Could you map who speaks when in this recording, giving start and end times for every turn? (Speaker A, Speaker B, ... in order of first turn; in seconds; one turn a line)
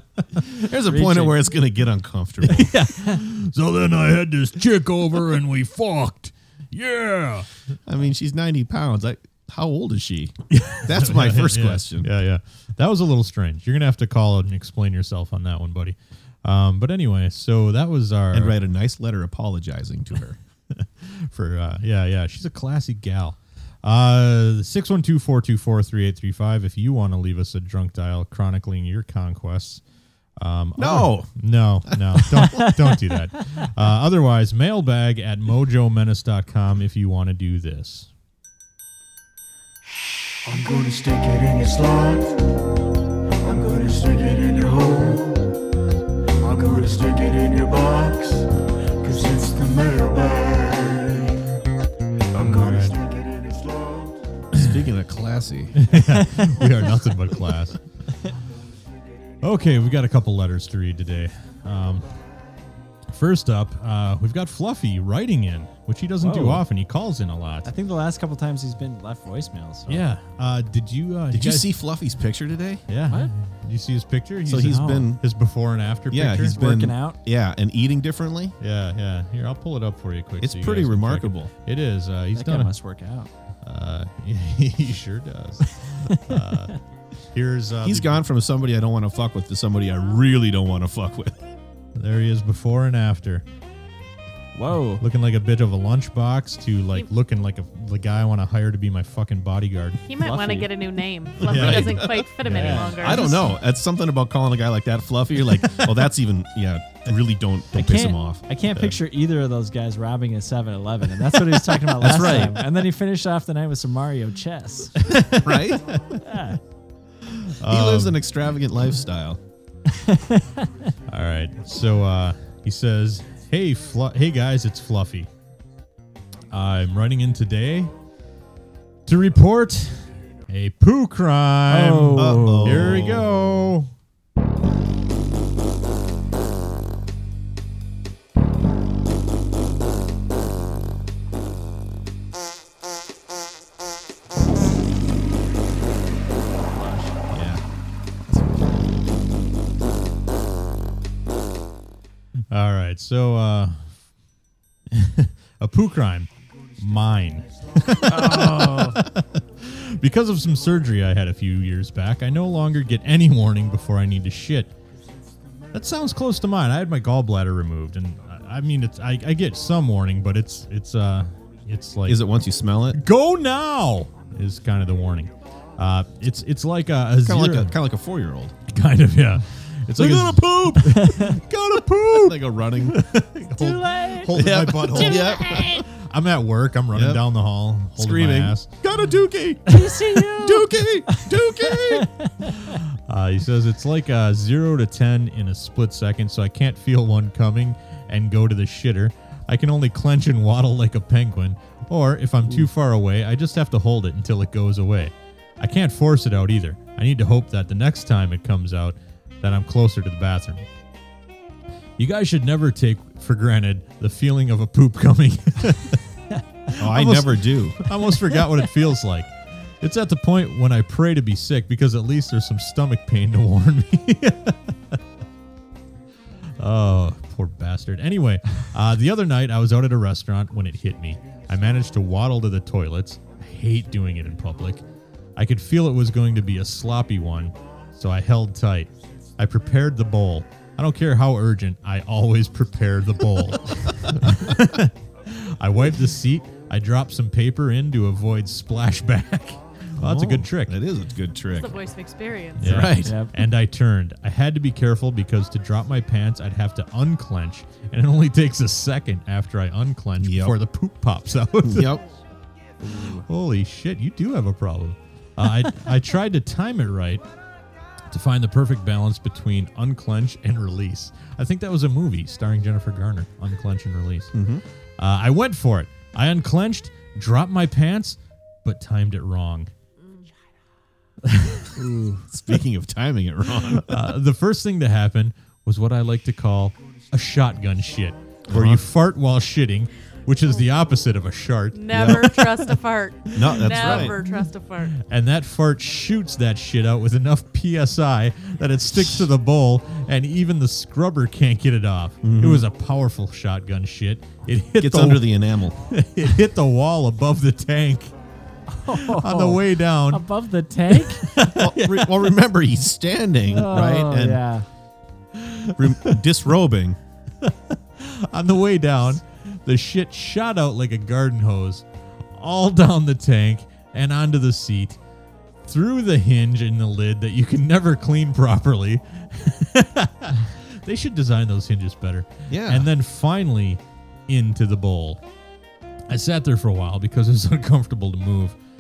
Speaker A: 0.5-2.7
Speaker B: 0.8-1.5
Speaker C: 2.5-7.5
Speaker A: 7.9-12.1
Speaker C: 10.5-18.6
Speaker A: 18.3-20.4
Speaker C: 20.7-29.8
Speaker C: 30.4-38.1
Speaker A: 30.8-31.3
Speaker A: 31.9-32.5
Speaker B: 32.4-32.7
Speaker D: 40.5-42.4
Speaker D: 43.4-45.5
Speaker D: 46.4-51.4
Speaker D: 52.3-54.2
Speaker C: 52.4-53.0
Speaker A: 54.5-55.8
Speaker C: 55.8-57.8
Speaker B: 56.2-56.9
Speaker C: 59.4-62.1
Speaker C: 63.1-67.7
Speaker B: 66.2-66.7
Speaker B: 67.7-70.0
Speaker C: 69.9-71.7
Speaker A: 71.3-72.8
Speaker C: 72.9-76.5
Speaker A: 74.5-75.2
Speaker B: 74.6-75.1
Speaker A: 76.1-78.5
Speaker B: 76.4-77.2
Speaker C: 78.6-82.8
Speaker A: 80.4-81.5
Speaker B: 82.3-83.3
Speaker C: 83.6-86.8
Speaker C: 87.3-88.2
Speaker A: 87.8-91.4
Speaker C: 92.0-93.4
Speaker B: 94.5-95.0
Speaker C: 95.0-100.0
Speaker E: 100.1-103.5
Speaker B: 100.2-100.7
Speaker A: 101.4-102.3
Speaker C: 101.4-103.3
Speaker B: 102.5-103.4
Speaker A: 103.0-109.0
Speaker B: 107.8-115.0
Speaker C: 112.0-112.7
Speaker A: 112.0-112.5
Speaker C: 115.1-116.0
Speaker A: 115.3-116.0
Speaker B: 116.2-116.6
Speaker C: 117.3-118.2
Speaker A: 117.7-119.4
Speaker B: 119.9-120.9
Speaker C: 121.1-125.3
Speaker C: 126.5-127.9
Speaker C: 129.1-133.9
Speaker B: 131.7-132.9
Speaker A: 132.2-133.3
Speaker B: 146.6-147.2
Speaker A: 147.3-147.6
Speaker B: 148.3-148.9
Speaker C: 152.5-153.9
Speaker C: 154.9-164.7
Speaker B: 158.1-159.0
Speaker C: 165.7-172.2
Speaker A: 172.1-173.0
Speaker C: 172.9-177.8
Speaker A: 177.2-178.6
Speaker C: 178.7-188.7
Speaker A: 179.9-183.0
Speaker B: 183.6-184.3
Speaker A: 184.3-185.8
Speaker E: 185.2-185.6
Speaker A: 186.9-187.2
Speaker A: 187.9-192.1
Speaker B: 189.7-192.8
Speaker C: 193.1-210.7
Speaker C: 212.0-216.0
Speaker C: 216.7-225.0
Speaker A: 216.8-217.8
Speaker C: 226.6-234.8
Speaker C: 235.4-250.8
Speaker A: 250.0-251.8
Speaker E: 251.5-252.9
Speaker C: 252.6-262.0
Speaker A: 252.6-253.2
Speaker B: 253.0-253.3
Speaker A: 260.2-260.6
Speaker A: 261.6-262.0
Speaker B: 262.8-263.2
Speaker C: 263.0-267.2
Speaker C: 268.1-274.3
Speaker A: 274.3-274.6
Speaker C: 275.0-279.7
Speaker C: 281.2-281.9
Speaker B: 281.8-282.2
Speaker A: 282.3-284.0
Speaker C: 283.8-292.5
Speaker A: 288.5-288.8
Speaker E: 291.7-295.0
Speaker A: 291.9-292.2
Speaker A: 293.3-294.2
Speaker C: 293.4-294.2
Speaker C: 295.0-308.1
Speaker A: 302.2-302.7
Speaker A: 304.8-305.8
Speaker B: 308.7-311.3
Speaker C: 308.9-310.2
Speaker C: 310.9-312.2
Speaker A: 311.5-314.4
Speaker B: 313.5-314.7
Speaker C: 315.4-316.2
Speaker A: 315.8-317.0
Speaker C: 317.4-325.0
Speaker C: 325.7-335.2
Speaker A: 332.5-332.9
Speaker C: 336.1-338.6